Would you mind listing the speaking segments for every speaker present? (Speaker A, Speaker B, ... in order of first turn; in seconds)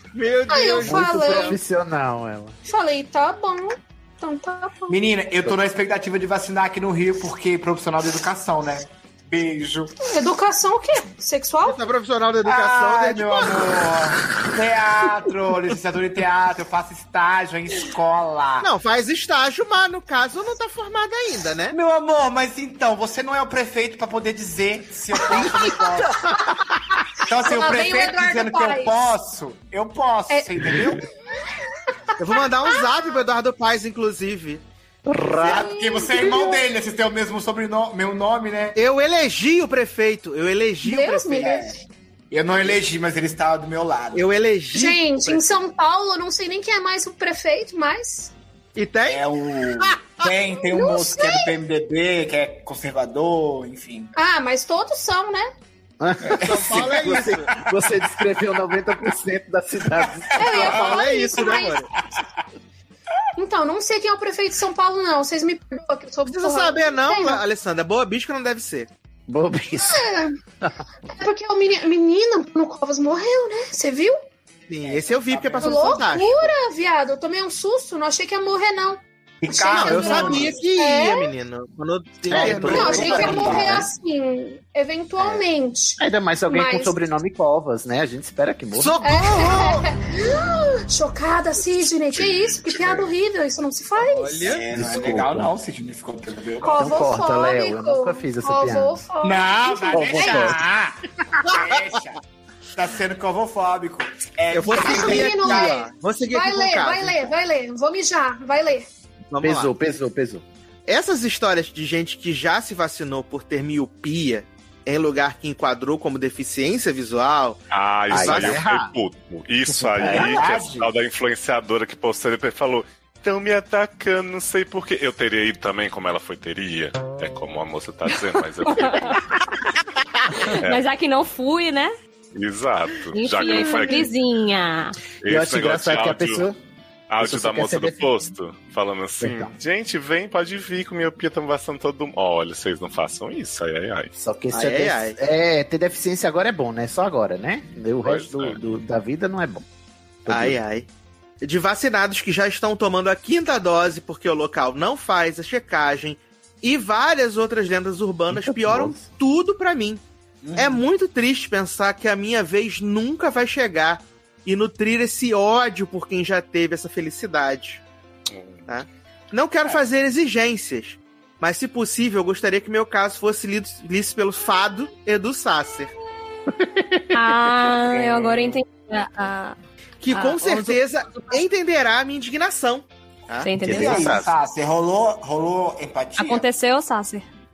Speaker A: 0.1-1.6, 11.6-13.7, 18.6-21.8, 32.2-34.6, 38.8-41.5, 44.1-45.6, 48.7-49.3, 56.4-57.5, 60.4-61.9, 66.3-68.9, 74.7-76.5, 79.7-83.7, 88.8-89.8, 94.1-94.7, 104.5-107.3, 109.3-109.7, 110.9-118.6, 144.5-145.2, 150.3-150.9, 151.4-160.0, 160.6-167.8, 168.7-175.9, 180.0-183.5
Speaker B: 0.5-1.6, 2.6-5.0, 10.0-11.8, 27.3-29.1, 30.3-31.5, 32.2-33.0, 35.4-36.7, 40.8-41.8, 44.7-48.3, 50.7-51.5, 54.1-55.5, 60.4-61.9, 63.4-67.4, 69.8-70.4, 71.1-74.2, 75.6-81.3, 82.5-87.0, 89.0-94.5, 96.6-100.6, 104.8-108.9
Speaker C: 0.8-2.5, 25.3-26.9, 35.0-36.4, 56.0-60.4, 69.3-70.0, 82.3-83.9, 85.2-85.5, 86.0-89.0, 94.7-95.5, 96.7-99.0, 99.9-100.6, 109.4-110.4, 118.1-118.9, 119.7-120.4, 135.2-136.6, 137.2-138.1, 139.2-139.5, 144.2-149.6, 150.2-150.6, 158.3-159.1, 176.6-177.0, 183.6-184.3
Speaker D: 4.9-9.9, 12.4-18.7, 21.7-26.3, 27.2-31.0, 35.4-38.8, 41.3-41.7, 42.3-44.3, 49.1-54.1, 56.2-56.6, 60.3-60.9, 74.8-76.0, 79.4-80.5, 82.3-83.8, 94.4-97.1, 99.2-102.2, 102.7-105.8, 120.0-120.9, 160.4-160.8, 183.7-186.4
Speaker E: 92.1-93.1, 117.7-129.2, 130.5-130.8, 132.3-134.1, 135.2-136.4, 137.1-144.1, 148.0-148.6, 168.3-168.6, 178.1-178.6
Speaker F: 128.6-129.2, 130.5-131.9, 133.1-135.0, 177.1-179.6, 180.1-181.4, 183.4-184.2, 186.2-187.2